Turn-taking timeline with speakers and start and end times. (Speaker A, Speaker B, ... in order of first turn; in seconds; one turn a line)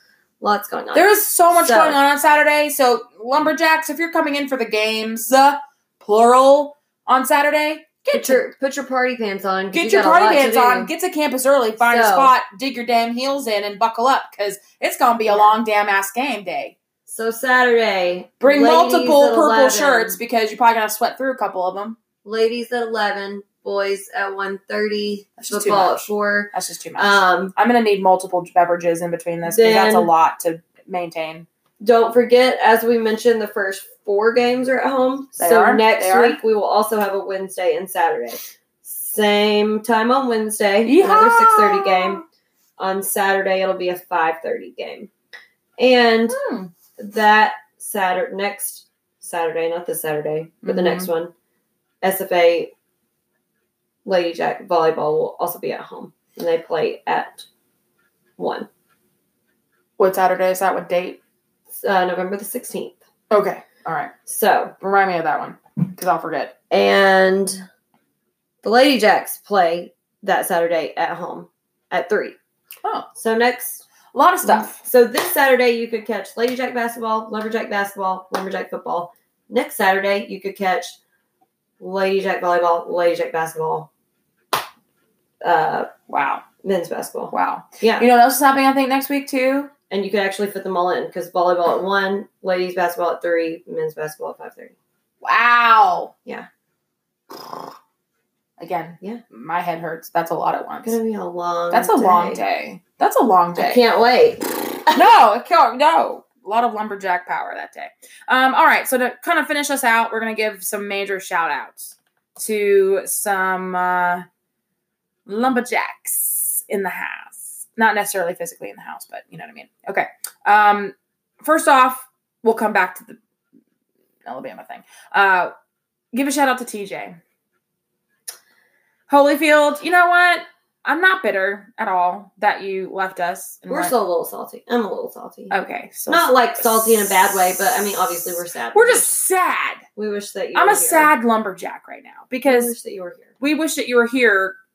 Speaker A: 0.4-2.0
Speaker B: 0.9-8.4
Speaker A: 8.1-10.9
Speaker B: 9.7-16.8
Speaker A: 11.8-12.3
Speaker A: 15.3-15.6
Speaker A: 17.1-20.2
Speaker B: 18.4-22.0
Speaker A: 22.2-27.5
Speaker B: 25.4-31.5
Speaker A: 29.4-30.1
Speaker A: 31.8-42.2
Speaker B: 35.4-36.4
Speaker B: 40.9-42.2
Speaker A: 42.8-45.1
Speaker A: 45.8-46.4
Speaker B: 46.3-46.7
Speaker A: 47.0-51.3
Speaker B: 50.6-51.1
Speaker A: 52.0-52.7
Speaker A: 54.1-57.5
Speaker A: 58.4-58.7
Speaker B: 60.0-61.2
Speaker A: 61.8-63.0
Speaker B: 63.3-64.1
Speaker A: 64.3-64.8
Speaker B: 64.8-66.5
Speaker A: 66.7-67.6
Speaker A: 68.6-72.4
Speaker A: 73.1-73.8
Speaker B: 74.1-74.8
Speaker A: 74.4-81.0
Speaker A: 81.8-83.9
Speaker A: 85.4-85.9
Speaker B: 86.1-86.5
Speaker A: 86.6-88.1
Speaker B: 87.3-89.7
Speaker A: 89.9-94.8
Speaker B: 95.2-96.1
Speaker B: 98.6-101.0
Speaker A: 100.8-102.4
Speaker B: 101.7-103.8
Speaker A: 103.5-105.1
Speaker B: 104.9-114.2
Speaker B: 115.3-123.2
Speaker B: 124.2-125.5
Speaker B: 126.1-127.2
Speaker B: 129.1-133.9
Speaker A: 133.7-135.6
Speaker B: 135.5-138.0
Speaker A: 136.1-139.1
Speaker B: 138.7-139.8
Speaker A: 140.0-141.1
Speaker B: 140.5-142.7
Speaker A: 142.4-143.3
Speaker B: 143.4-144.6